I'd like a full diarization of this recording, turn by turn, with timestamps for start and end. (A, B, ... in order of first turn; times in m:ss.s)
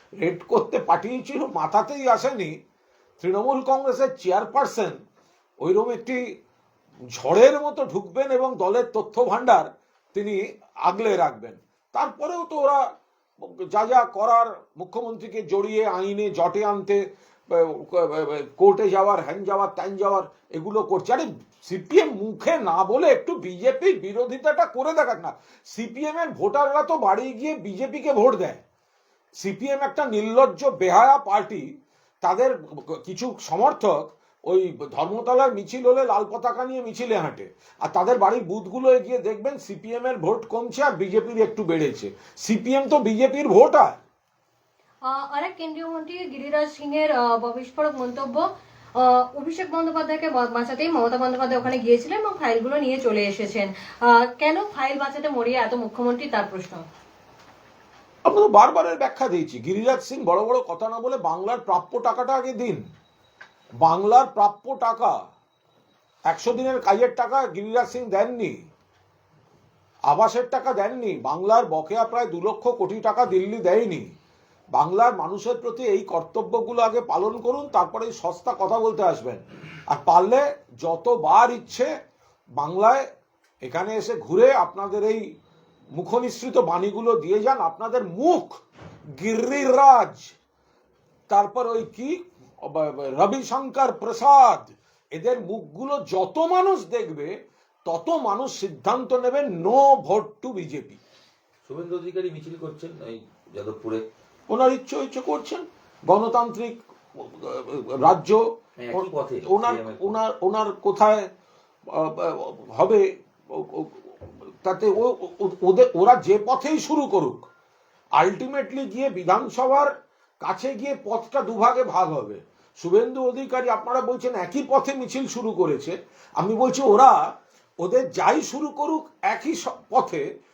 0:00.2-0:02.5 A
0:03.2-0:05.0 A
0:05.6-0:06.2 A
0:07.1-0:12.8 A
0:13.4-0:28.6 A
0:29.4-0:31.6 A
0:32.2-0:44.0 A
0:45.1-0:48.4 B
0:49.0-0:56.8 B
0:58.3-1:02.8 A
1:03.8-1:05.2 A
1:06.3-1:08.6 A
1:10.1-1:14.1 A
1:14.8-1:21.9 A
1:22.6-1:23.0 A
1:23.6-1:25.2 A
1:26.0-1:28.6 A
1:29.2-1:30.3 A
1:31.3-1:37.3 A
1:37.9-1:41.0 A
1:41.7-1:44.0 C
1:44.5-1:51.3 A
1:48.8-1:50.2 C
1:51.9-1:57.4 A
1:58.2-1:59.9 A
2:00.4-2:07.2 A
2:07.8-2:10.2 A